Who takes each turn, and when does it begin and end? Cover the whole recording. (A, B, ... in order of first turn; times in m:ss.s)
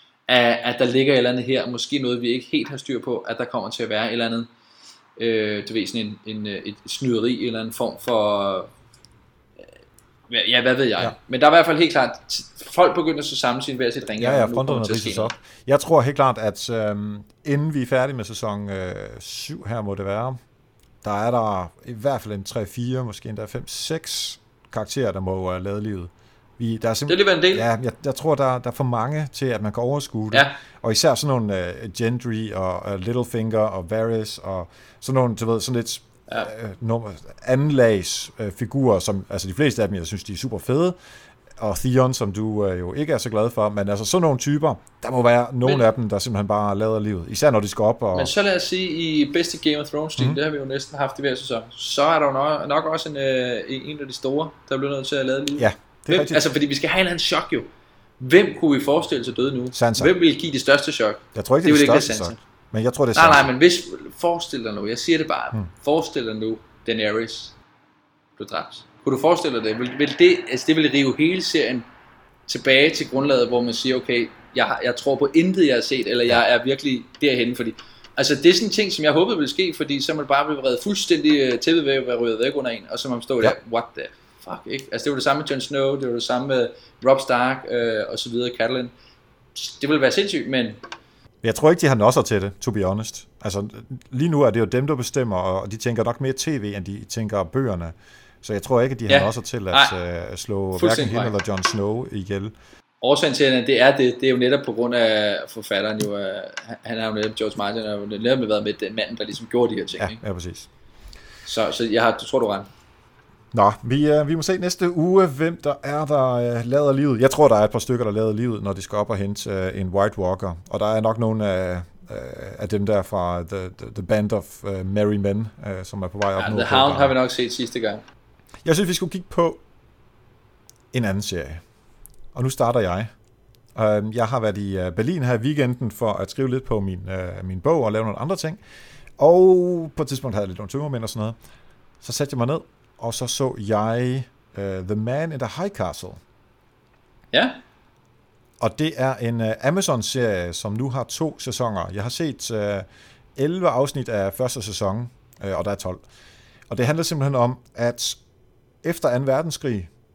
0:00.3-0:04.5 A
0:05.2-0:08.7 A
0:10.3-0:15.3 A
0:14.2-0:20.4 B
0:21.0-0:41.0 B
0:27.1-0:27.6 A
0:36.3-0:36.5 A
0:41.6-0:48.3 B
0:48.1-0:57.7 A
0:55.6-0:56.4 B
0:58.2-1:02.4 A
0:59.7-1:00.1 B
1:01.3-1:03.5 B
1:03.1-1:07.5 A
1:08.4-1:11.8 A
1:12.5-1:28.9 A
1:29.5-1:30.8 A
1:31.4-1:42.5 B
1:39.1-1:39.9 A
1:40.7-1:41.3 A
1:43.0-1:50.2 A
1:50.0-1:50.7 B
1:51.4-1:52.7 A
1:53.5-2:07.2 B
2:06.4-2:08.0 A
2:08.6-2:09.6 B
2:10.9-2:11.6 B
2:12.3-2:13.1 B
2:13.7-2:18.6 B
2:19.2-2:21.4 B
2:22.0-2:26.2 B
2:27.3-2:27.6 A
2:28.6-2:36.0 B
2:36.7-2:38.2 B
2:38.8-2:39.9 B